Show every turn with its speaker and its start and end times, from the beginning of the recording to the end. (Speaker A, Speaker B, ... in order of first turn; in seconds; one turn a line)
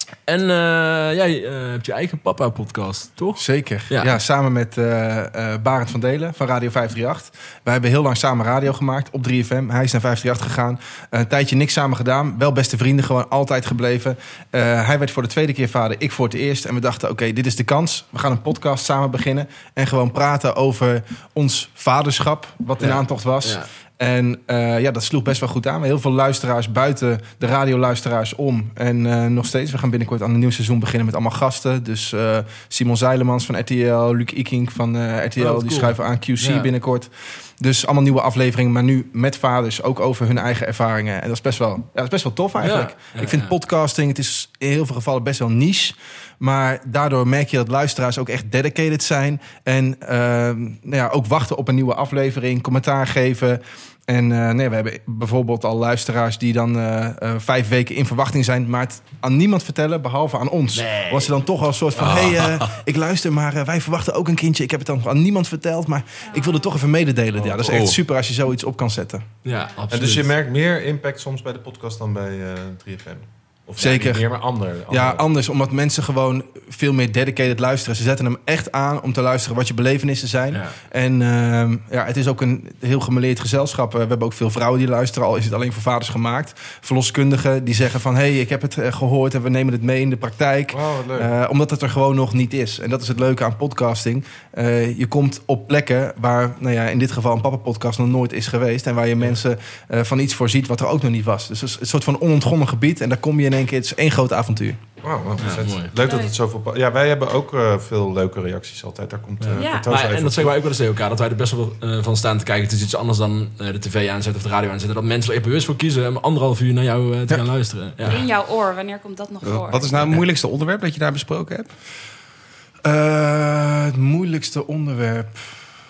Speaker A: 0.3-4.2
Speaker B: 3.4-69.2
Speaker A: 22.8-23.7
Speaker A: 35.4-36.7
Speaker A: 42.6-43.5
Speaker A: 60.7-62.3
Speaker C: 62.0-62.6
Speaker D: 66.2-66.7
Speaker E: 67.3-67.9
Speaker C: 67.7-68.0
Speaker A: 69.4-70.3
Speaker E: 69.9-75.2
Speaker B: 73.8-74.3
Speaker B: 74.9-104.8
Speaker A: 80.5-80.8
Speaker E: 90.7-91.3
Speaker E: 105.0-110.6
Speaker A: 105.4-105.9
Speaker D: 106.0-106.4
Speaker A: 109.4-118.2
Speaker D: 109.6-109.9
Speaker D: 118.0-119.9
Speaker C: 119.4-121.7
Speaker B: 122.8-125.5